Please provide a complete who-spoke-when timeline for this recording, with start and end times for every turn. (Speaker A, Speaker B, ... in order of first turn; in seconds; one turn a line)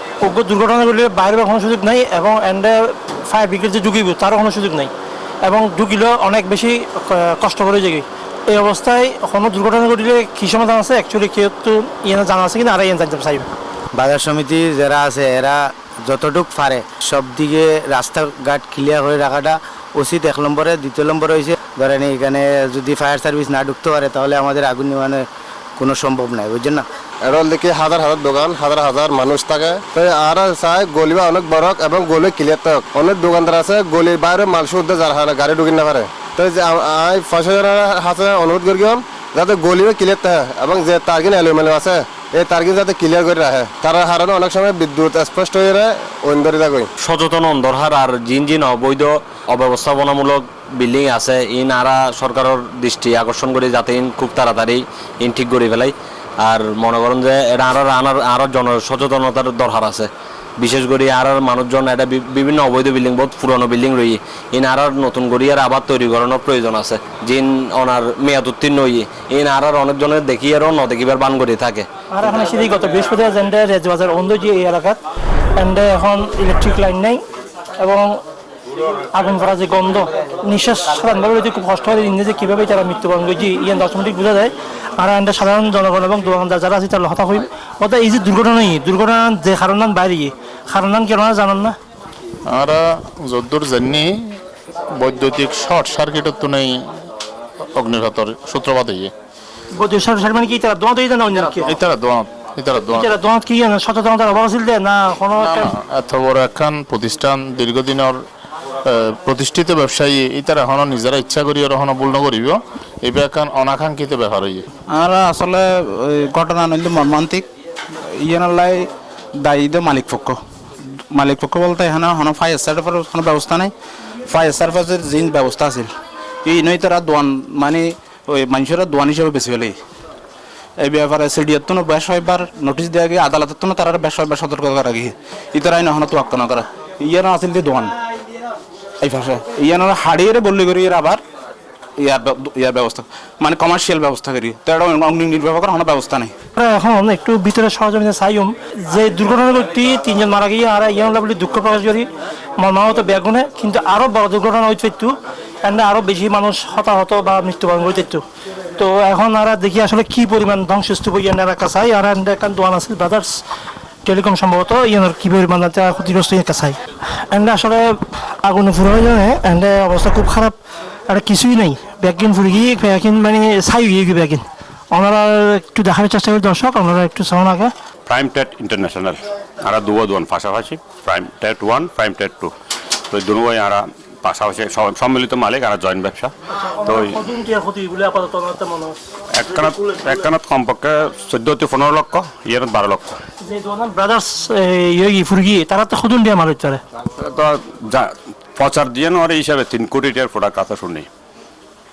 Speaker A: 0.2-4.9
Speaker A: 5.4-13.4
Speaker B: 13.9-25.2
Speaker B: 25.8-26.8
Speaker C: 27.2-46.9
Speaker D: 47.0-60.1
Speaker D: 60.6-71.9
Speaker A: 72.1-75.0
Speaker A: 75.6-77.2
Speaker A: 77.8-78.2
Speaker A: 79.1-91.8
Speaker E: 92.5-94.4
Speaker E: 94.9-96.8
Speaker E: 97.7-99.1
Speaker A: 99.8-101.8
Speaker E: 101.7-103.1
Speaker A: 102.9-105.7
Speaker E: 105.4-108.2
Speaker E: 108.8-114.7
Speaker F: 114.9-117.5
Speaker F: 118.1-120.4
Speaker F: 121.1-123.7
Speaker F: 124.2-125.9
Speaker F: 126.4-129.8
Speaker F: 130.8-137.9
Speaker F: 139.0-141.2
Speaker F: 142.0-146.3
Speaker A: 146.6-152.1
Speaker A: 152.6-158.2
Speaker A: 158.8-163.4
Speaker A: 164.1-166.8
Speaker A: 167.3-170.6
Speaker A: 171.1-177.7
Speaker G: 178.1-182.5
Speaker G: 183.1-186.3
Speaker A: 186.8-189.0
Speaker G: 186.9-187.2
Speaker G: 189.4-193.2
Speaker A: 189.6-190.1
Speaker A: 193.4-196.8
Speaker G: 197.2-201.1